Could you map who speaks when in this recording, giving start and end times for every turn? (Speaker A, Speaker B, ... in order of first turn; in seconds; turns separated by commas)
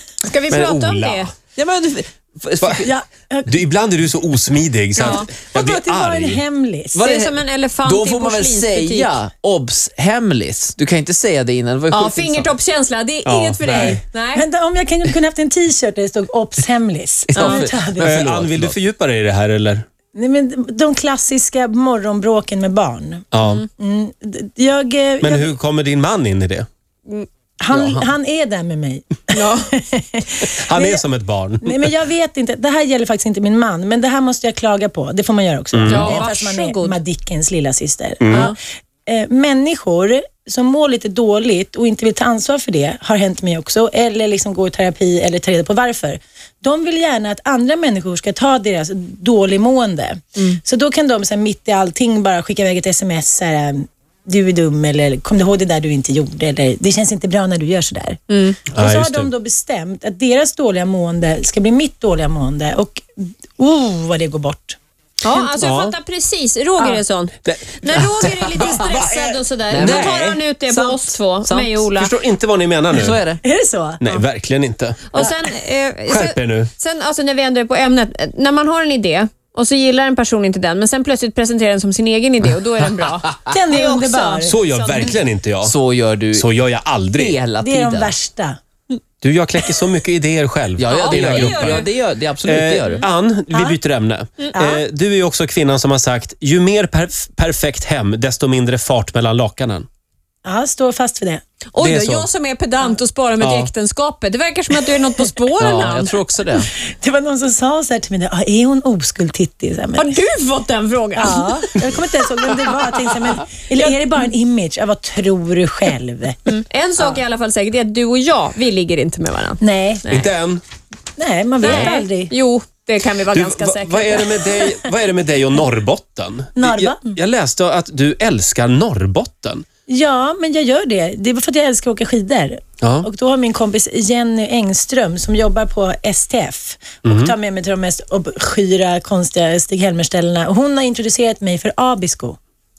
Speaker A: 0.2-1.3, Speaker B: 0.5-1.3, Speaker C: 1.6-2.9, Speaker B: 2.6-2.9, Speaker D: 2.8-3.5, Speaker B: 3.5-6.4, Speaker A: 5.0-5.3, Speaker D: 5.0-7.0, Speaker C: 6.9-12.5, Speaker A: 7.0-9.1, Speaker A: 11.9-14.4, Speaker B: 13.2-14.0, Speaker D: 13.7-18.4, Speaker C: 17.3-18.8, Speaker A: 17.4-17.7, Speaker B: 18.0-19.8, Speaker D: 20.1-25.5, Speaker B: 23.3-23.6, Speaker B: 25.2-26.7, Speaker D: 27.6-31.0, Speaker B: 27.7-28.0, Speaker A: 29.3-29.7, Speaker B: 30.5-31.9, Speaker D: 31.6-38.5, Speaker B: 35.7-36.3, Speaker A: 35.9-37.0, Speaker B: 38.2-38.5, Speaker D: 39.1-58.2, Speaker A: 58.3-58.6, Speaker B: 58.7-59.3, Speaker D: 58.7-63.0, Speaker D: 63.6-64.8, Speaker A: 65.2-72.1, Speaker D: 65.3-65.6, Speaker B: 65.6-66.0, Speaker B: 67.5-70.4, Speaker C: 69.7-71.8, Speaker B: 72.0-73.2, Speaker C: 73.0-73.4, Speaker D: 73.4-74.0, Speaker B: 74.0-75.3, Speaker A: 75.1-85.2, Speaker B: 76.1-76.7, Speaker D: 83.5-84.6, Speaker B: 84.5-85.7, Speaker C: 85.6-86.5, Speaker B: 86.3-87.4, Speaker C: 87.2-88.1, Speaker D: 87.6-88.6, Speaker B: 89.2-91.9, Speaker C: 90.8-93.0, Speaker A: 90.9-91.9, Speaker B: 92.4-99.9, Speaker D: 94.5-94.8, Speaker D: 100.5-101.4, Speaker A: 101.7-106.2, Speaker B: 101.8-102.3, Speaker B: 103.4-103.7, Speaker C: 105.6-106.7, Speaker D: 107.0-110.2, Speaker A: 110.0-111.8, Speaker D: 111.2-116.4, Speaker A: 116.5-120.3, Speaker D: 119.6-120.0, Speaker B: 120.1-120.6, Speaker D: 121.2-122.3, Speaker A: 121.6-124.4, Speaker B: 121.6-122.0, Speaker B: 123.3-129.7, Speaker D: 124.3-124.9, Speaker D: 126.6-127.2, Speaker D: 129.9-142.4, Speaker B: 132.8-133.1, Speaker B: 137.0-137.3